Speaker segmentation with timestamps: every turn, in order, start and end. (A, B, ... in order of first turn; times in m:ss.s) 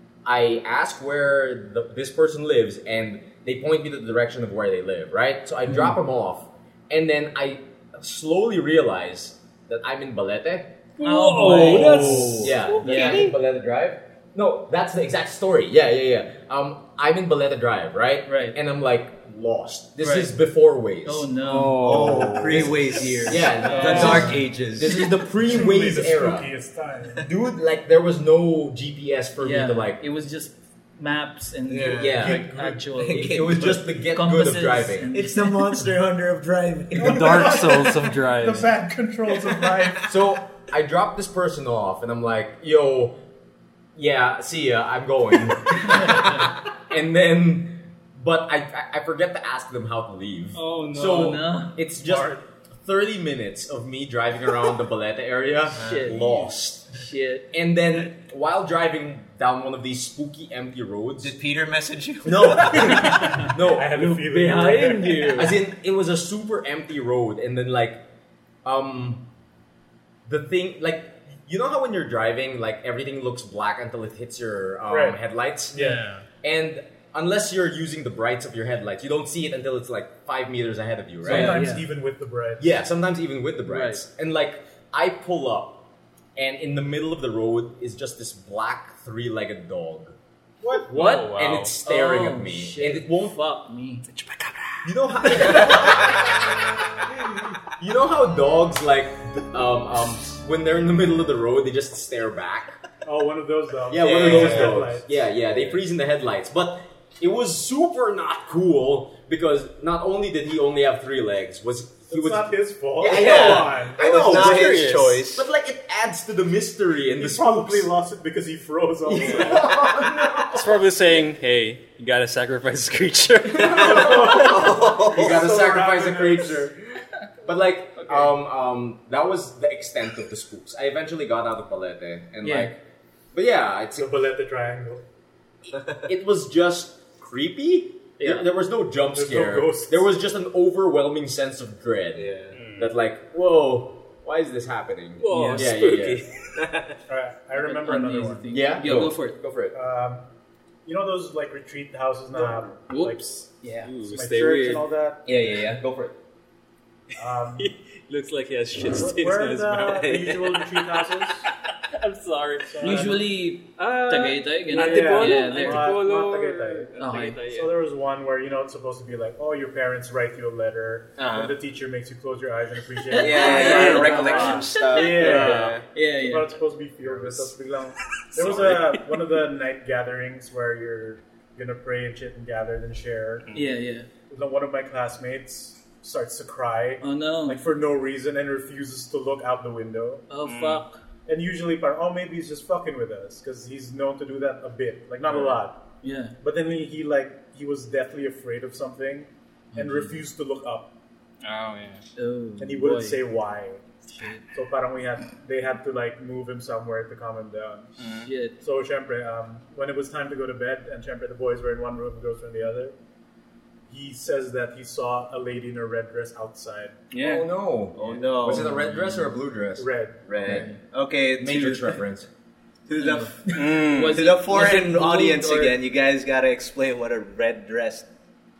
0:00.2-0:10.7 A
0:11.0-0:12.6 B
0:11.0-0:13.3 C
0:11.6-0:21.3 A
0:11.8-0:13.2 D
0:18.2-0:18.6 C
0:20.0-0:20.3 C
0:21.0-0:22.3 C
0:21.4-0:24.4 B
0:21.8-0:25.0 D
0:23.2-0:26.5 A
0:23.6-0:24.3 C
0:23.8-0:24.4 E
0:25.3-0:27.2 E
0:27.2-0:30.0 A
0:29.4-0:35.9 C
0:31.7-0:33.9 D
0:31.9-0:35.1 A
0:32.2-0:32.8 E
0:35.1-0:37.5 D
0:36.9-0:40.1 E
0:37.0-0:38.7 B
0:40.0-0:43.2 A
0:43.9-0:57.0 A
0:46.0-0:46.4 C
0:50.5-0:51.4 B
0:51.0-0:51.7 C
0:52.0-0:52.4 E
0:55.7-0:56.3 C
0:55.7-0:56.2 D
0:56.9-0:57.5 C
0:57.5-1:01.3 A
1:01.2-1:03.0 D
1:02.2-1:04.7 A
1:02.8-1:05.4 E
1:03.1-1:03.4 C
1:04.0-1:05.6 C
1:05.2-1:08.0 A
1:08.6-1:09.2 A
1:10.2-1:15.8 A
1:14.9-1:15.2 E
1:15.7-1:16.0 E
1:15.7-1:16.2 B
1:16.4-1:21.7 A
1:21.2-1:22.7 E
1:21.3-1:21.9 C
1:22.6-1:25.8 A
1:23.7-1:24.0 C
1:26.4-1:30.1 A
1:30.6-1:31.0 E
1:30.9-1:34.0 C
1:30.9-1:31.7 B
1:31.3-1:33.4 A
1:34.1-1:37.0 B
1:34.8-1:42.8 A
1:43.0-1:45.2 E
1:43.9-1:57.9 A
1:44.1-1:44.6 D
1:52.1-1:54.0 E
1:53.0-1:55.4 D
1:54.1-1:55.2 B
1:57.2-1:59.9 E
1:59.1-2:00.7 A
2:00.5-2:04.4 B
2:03.5-2:06.7 A
2:03.6-2:05.4 D
2:03.8-2:06.8 E
2:07.4-2:12.8 A
2:12.4-2:12.7 C
2:13.3-2:14.1 A
2:14.0-2:15.0 E
2:15.7-2:26.3 A
2:19.1-2:20.1 E
2:22.1-2:22.6 D
2:22.5-2:22.9 B
2:25.2-2:26.4 B
2:25.3-2:25.6 D
2:26.6-2:27.0 D
2:27.1-2:28.5 E
2:27.6-2:29.4 C
2:28.5-2:29.7 A
2:29.7-2:30.2 E
2:30.8-2:33.5 E
2:32.9-2:33.2 C
2:33.6-2:34.8 B
2:34.0-2:35.3 E
2:35.2-2:36.2 A
2:37.2-2:37.7 E
2:37.6-2:43.2 B
2:38.9-2:41.5 E
2:42.7-2:43.2 E
2:42.8-2:45.9 C
2:43.7-2:47.7 B
2:44.7-3:03.5 E
2:47.0-2:47.4 C
2:51.2-2:51.5 D
2:53.1-2:56.6 C
2:53.1-2:55.9 D
2:53.6-2:54.6 B
2:58.3-2:59.0 B
3:03.5-3:04.1 C
3:04.3-3:10.2 E
3:07.0-3:07.6 C
3:10.3-3:11.0 C
3:10.4-3:10.8 B
3:11.3-3:15.8 E
3:16.0-3:16.3 C
3:16.4-3:20.9 E
3:19.8-3:20.1 C
3:21.4-3:22.0 B
3:22.2-3:23.2 C
3:22.6-3:23.8 E
3:24.2-3:24.4 C
3:24.5-3:27.9 E
3:28.0-3:28.3 B
3:28.2-3:28.6 C
3:28.6-3:32.9 E
3:33.9-3:37.0 E
3:37.1-3:37.5 B
3:37.1-3:40.7 A
3:38.0-3:38.8 D
3:39.8-3:40.2 E
3:40.3-3:42.0 D
3:40.4-3:40.8 C
3:41.4-3:42.3 A
3:42.9-3:43.5 D
3:43.0-3:45.8 C
3:43.5-3:44.3 B
3:44.1-3:48.1 D